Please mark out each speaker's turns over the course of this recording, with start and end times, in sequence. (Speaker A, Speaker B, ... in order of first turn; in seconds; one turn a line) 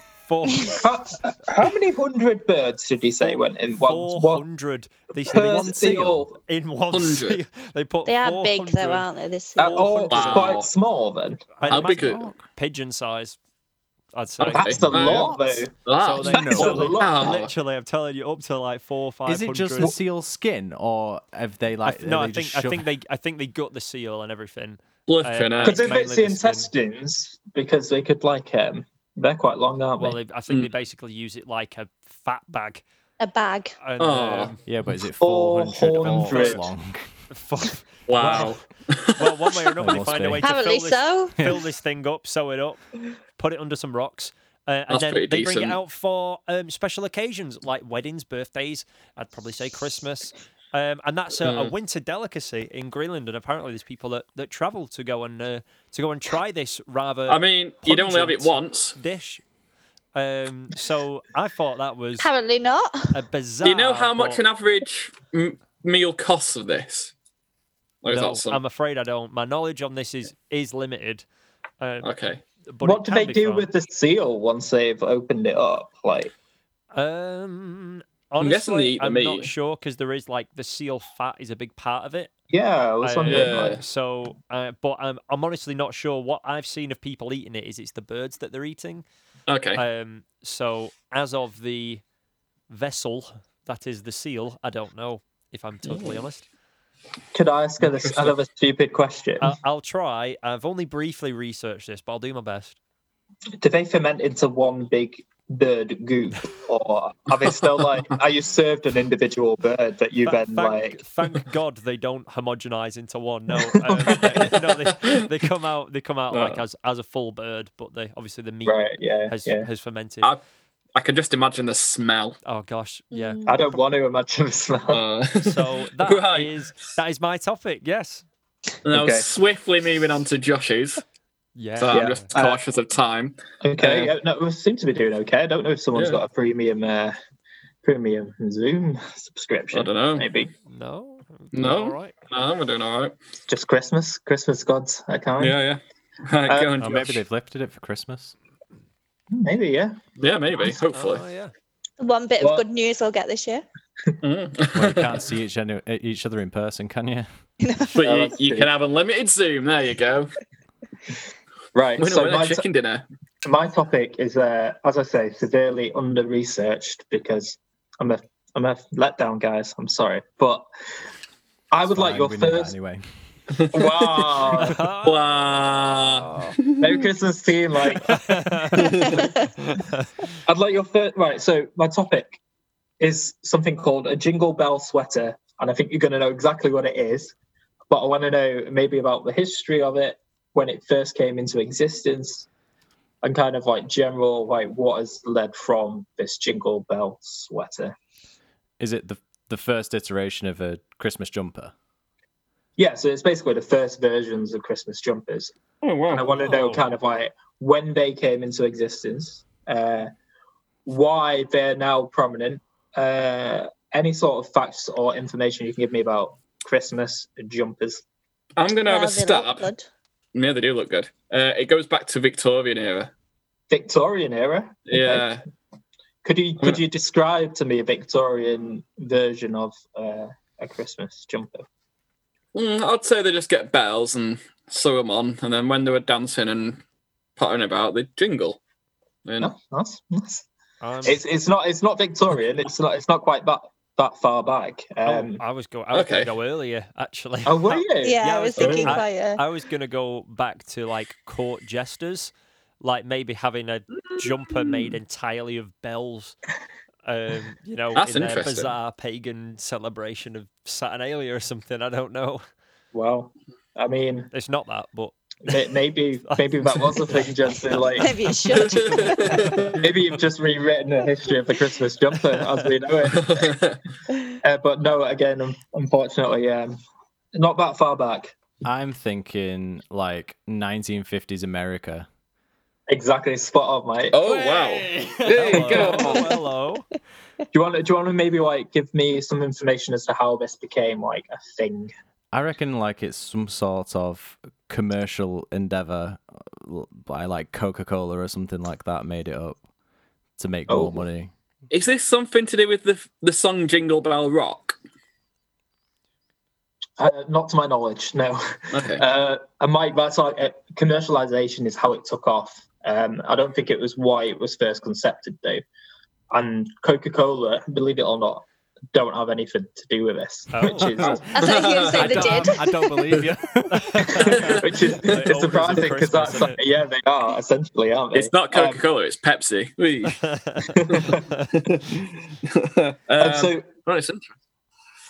Speaker A: 0.3-0.8
Speaker B: 0.8-4.5
Speaker A: 3.8-9.1
Speaker B: 5.2-6.4
Speaker C: 6.9-7.4
Speaker D: 8.1-9.8
Speaker B: 9.6-11.6
Speaker A: 9.7-10.7
Speaker C: 10.1-10.7
Speaker A: 11.6-13.4
Speaker C: 11.6-12.2
Speaker E: 11.9-12.4
Speaker A: 14.1-19.9
Speaker C: 14.4-15.3
Speaker B: 14.4-15.7
Speaker C: 15.8-17.5
Speaker E: 16.2-16.9
Speaker B: 16.3-17.4
Speaker E: 19.3-22.9
Speaker A: 21.9-26.7
Speaker C: 25.1-25.9
Speaker B: 25.6-30.2
Speaker A: 30.0-32.8
Speaker D: 33.2-33.8
Speaker A: 33.8-34.6
Speaker C: 34.0-34.5
Speaker E: 34.7-37.0
Speaker B: 35.2-36.6
Speaker A: 36.0-36.6
Speaker A: 37.3-38.6
Speaker C: 38.1-39.3
Speaker A: 39.1-42.8
Speaker E: 39.8-40.5
Speaker D: 40.4-41.4
Speaker A: 43.4-59.4
Speaker C: 44.9-45.8
Speaker C: 51.4-51.7
Speaker C: 57.3-59.0
Speaker A: 60.1-62.3
Speaker D: 62.2-63.1
Speaker A: 63.1-64.4
Speaker C: 63.6-67.1
Speaker C: 68.0-68.6
Speaker A: 68.1-71.2
Speaker A: 71.8-72.1
Speaker C: 72.0-72.4
Speaker A: 72.7-73.7
Speaker B: 72.8-76.3
Speaker A: 76.9-82.3
Speaker C: 78.4-79.5
Speaker B: 82.5-83.8
Speaker A: 83.0-89.1
Speaker C: 83.3-83.8
Speaker C: 89.5-89.8
Speaker A: 89.8-92.0
Speaker A: 92.7-96.5
Speaker C: 95.9-96.2
Speaker B: 97.3-99.6
Speaker C: 98.0-98.3
Speaker A: 99.4-102.8
Speaker B: 103.6-111.0
Speaker A: 110.2-120.3
Speaker B: 113.7-114.4
Speaker C: 114.3-115.2
Speaker C: 116.3-116.6
Speaker B: 118.6-119.7
Speaker C: 121.0-122.4
Speaker A: 122.4-123.6
Speaker D: 123.1-123.6
Speaker B: 123.5-125.0
Speaker C: 124.9-126.6
Speaker A: 125.4-128.2
Speaker C: 128.8-131.0
Speaker B: 128.9-129.3
Speaker A: 131.6-132.3
Speaker C: 131.8-134.1
Speaker B: 131.9-132.6
Speaker B: 133.6-137.2
Speaker C: 135.9-136.2
Speaker B: 137.8-140.5
Speaker C: 139.7-140.3
Speaker A: 140.7-142.1
Speaker C: 141.5-143.2
Speaker B: 143.5-145.6
Speaker C: 145.4-147.2
Speaker B: 146.5-146.7
Speaker E: 146.8-148.3
Speaker B: 149.3-150.0
Speaker C: 150.2-151.2
Speaker A: 150.9-151.5
Speaker D: 152.0-153.7
Speaker B: 152.4-152.7
Speaker C: 154.2-155.2
Speaker E: 154.8-157.3
Speaker D: 157.6-158.0
Speaker C: 157.9-160.3
Speaker B: 158.0-158.7
Speaker B: 161.7-162.6
Speaker C: 162.0-163.1
Speaker B: 163.4-170.7
Speaker B: 171.7-172.7
Speaker E: 171.9-173.0
Speaker C: 173.6-176.8
Speaker B: 173.7-174.8
Speaker A: 174.6-175.2
Speaker B: 176.8-178.4
Speaker A: 178.1-179.1
Speaker C: 178.8-179.3
Speaker B: 180.5-182.4
Speaker B: 183.0-187.3
Speaker B: 187.9-192.5
Speaker B: 193.2-197.9
Speaker E: 198.8-201.7
Speaker B: 202.8-205.5
Speaker C: 205.8-206.3
Speaker B: 206.1-210.1
Speaker A: 206.4-206.8
Speaker B: 210.9-218.0
Speaker C: 218.6-219.7
Speaker D: 218.9-219.8
Speaker C: 220.3-223.1
Speaker B: 223.7-225.3
Speaker C: 224.9-225.4
Speaker B: 226.2-231.7
Speaker C: 232.5-236.8
Speaker C: 237.4-238.6
Speaker C: 239.2-239.5
Speaker B: 239.4-240.5
Speaker A: 240.8-241.2
Speaker B: 241.0-245.4
Speaker A: 245.1-256.4
Speaker C: 245.9-246.3
Speaker B: 247.4-248.2
Speaker D: 248.0-249.4
Speaker C: 248.6-249.0
Speaker A: 257.1-262.4
Speaker C: 257.9-258.7
Speaker B: 262.9-264.3
Speaker A: 264.3-265.1
Speaker B: 265.5-268.2
Speaker A: 266.2-267.8
Speaker D: 267.9-269.6
Speaker C: 268.5-269.8
Speaker B: 269.8-273.6
Speaker C: 273.1-273.8
Speaker B: 274.4-276.8
Speaker B: 277.4-278.4
Speaker E: 278.6-282.1
Speaker B: 282.9-284.2
Speaker C: 284.1-286.3
Speaker A: 284.4-286.9
Speaker B: 285.5-286.2
Speaker B: 287.5-291.9
Speaker E: 292.3-299.6
Speaker E: 300.4-301.3
Speaker B: 300.7-301.0
Speaker C: 301.7-304.8
Speaker B: 307.0-315.6
Speaker C: 308.7-309.0
Speaker B: 316.3-321.4
Speaker A: 320.5-321.2
Speaker C: 321.0-322.5
Speaker D: 321.3-322.7
Speaker E: 321.9-324.3
Speaker A: 323.7-326.6
Speaker B: 324.1-328.8
Speaker C: 324.4-324.6
Speaker C: 328.1-330.2
Speaker A: 330.1-331.5
Speaker B: 330.7-331.3
Speaker C: 331.6-334.3
Speaker B: 333.2-333.7